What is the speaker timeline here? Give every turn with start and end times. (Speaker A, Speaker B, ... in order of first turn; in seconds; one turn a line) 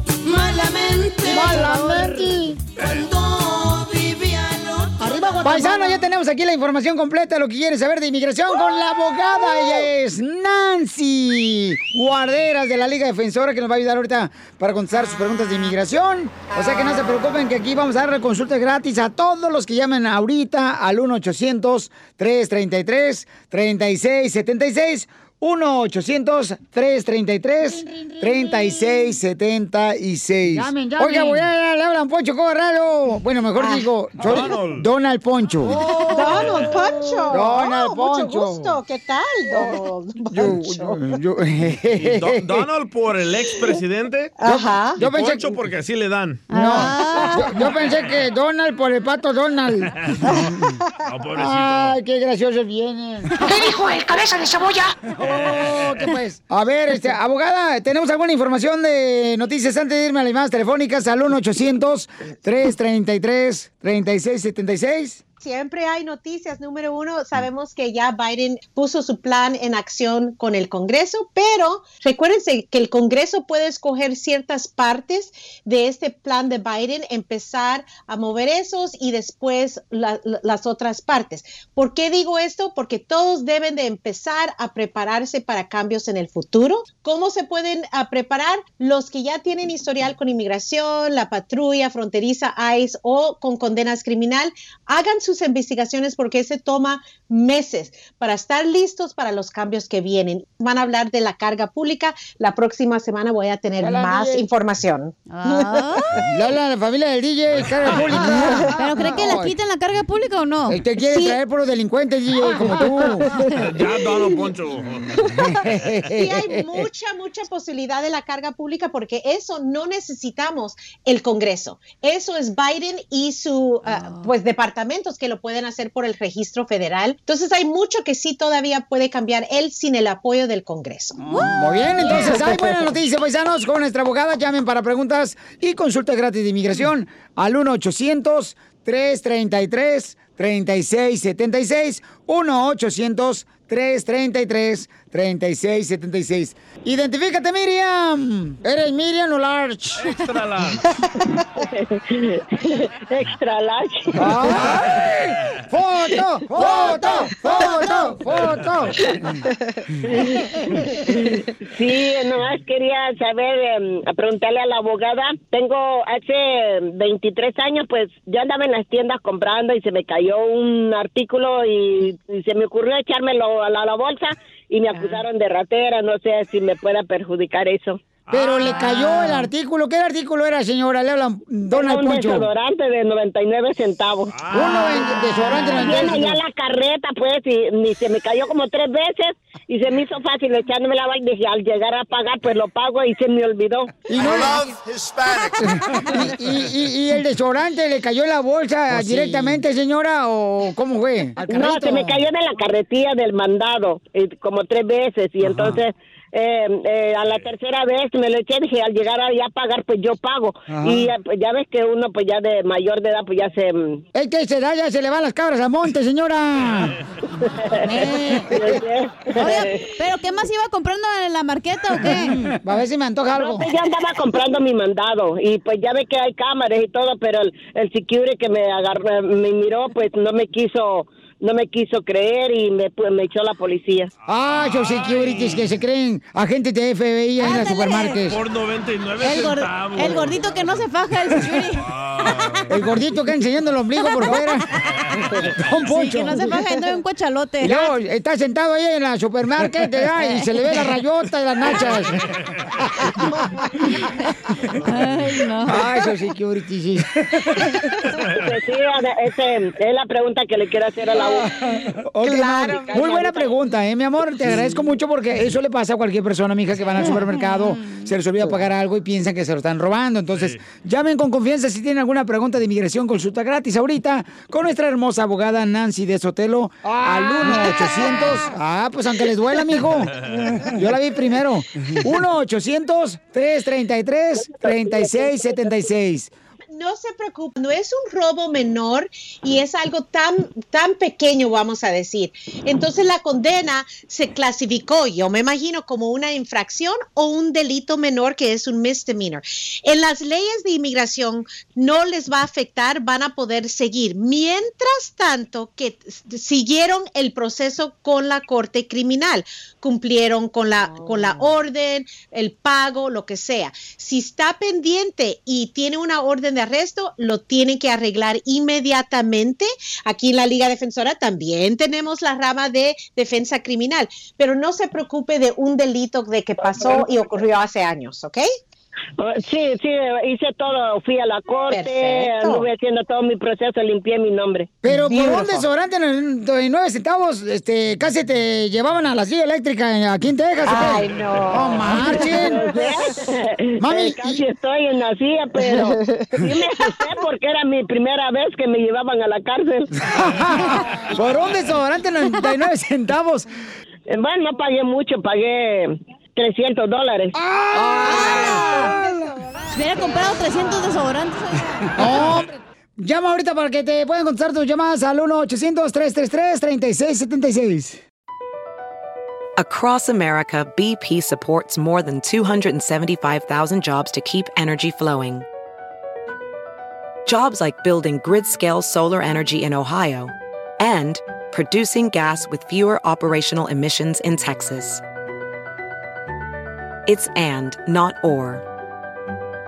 Speaker A: 0.2-1.8
Speaker B: 1.2-2.6
Speaker C: 1.3-2.2
Speaker A: 2.8-5.0
Speaker B: 5.0-38.8
Speaker C: 5.4-6.0
Speaker C: 31.0-31.4
Speaker D: 33.6-33.9
Speaker E: 34.2-34.9
Speaker D: 35.6-41.2
Speaker B: 39.5-39.8
Speaker B: 40.3-42.7
Speaker E: 42.0-44.4
Speaker D: 44.4-45.0
Speaker B: 44.5-45.6
Speaker E: 45.0-46.8
Speaker C: 46.5-47.6
Speaker B: 46.5-50.8
Speaker E: 51.0-52.0
Speaker B: 51.4-53.6
Speaker B: 55.1-65.2
Speaker E: 55.6-55.9
Speaker D: 65.4-105.8
Speaker B: 103.8-104.5
Speaker C: 105.3-106.1
Speaker B: 106.3-109.5
Speaker D: 108.2-108.7
Speaker C: 108.8-110.8
Speaker B: 110.7-113.3
Speaker D: 111.0-111.4
Speaker D: 112.7-113.2
Speaker E: 113.6-115.1
Speaker B: 115.3-116.9
Speaker D: 116.1-132.8
Speaker C: 123.9-124.3
Speaker B: 131.3-150.2
Speaker C: 131.3-132.5
Speaker E: 150.0-150.9
Speaker F: 151.6-154.4
Speaker B: 154.2-159.4
Speaker E: 158.5-158.8
Speaker F: 160.1-178.0
Speaker B: 178.3-182.5
Speaker E: 178.3-178.8
Speaker C: 178.4-179.4
Speaker F: 181.7-184.4
Speaker E: 184.3-185.6
Speaker B: 184.5-186.4
Speaker C: 184.6-186.2
Speaker F: 185.8-193.9
Speaker B: 194.1-194.7
Speaker B: 195.5-202.2
Speaker E: 198.9-199.5
Speaker F: 201.5-214.0
Speaker B: 210.7-211.1
Speaker B: 214.1-216.9
Speaker F: 217.6-219.9
Speaker B: 217.8-218.8
Speaker C: 219.4-222.4
Speaker B: 222.0-223.7
Speaker F: 223.3-234.1
Speaker B: 234.3-238.4
Speaker E: 234.4-235.7
Speaker C: 237.4-238.2
Speaker E: 238.2-240.8
Speaker C: 239.2-242.6
Speaker E: 241.9-242.7
Speaker B: 242.7-244.7
Speaker C: 244.0-244.6
Speaker E: 245.1-245.5
Speaker B: 245.4-246.7
Speaker C: 245.8-247.9
Speaker B: 247.6-252.2
Speaker C: 250.2-250.5
Speaker E: 251.9-252.2
Speaker B: 252.8-253.7
Speaker C: 254.9-255.8
Speaker B: 255.7-257.8
Speaker F: 258.4-261.6
Speaker B: 261.2-261.4
Speaker B: 262.1-286.3
Speaker D: 262.2-262.9
Speaker F: 262.4-263.6
Speaker E: 270.3-270.6
Speaker C: 277.2-278.2
Speaker F: 284.9-285.3
Speaker D: 286.7-328.5
Speaker F: 326.8-327.0
Speaker F: 329.2-334.7
Speaker D: 331.7-332.7
Speaker B: 334.8-342.9
Speaker D: 334.9-335.7
Speaker D: 340.6-342.4
Speaker F: 341.9-349.9
Speaker B: 343.8-344.4
Speaker B: 350.1-353.5
Speaker F: 354.1-357.3
Speaker B: 357.6-359.2
Speaker C: 358.0-358.9
Speaker C: 359.7-362.2
Speaker B: 361.9-368.0
Speaker G: 369.6-375.5
Speaker G: 377.3-385.0
Speaker G: 387.1-388.6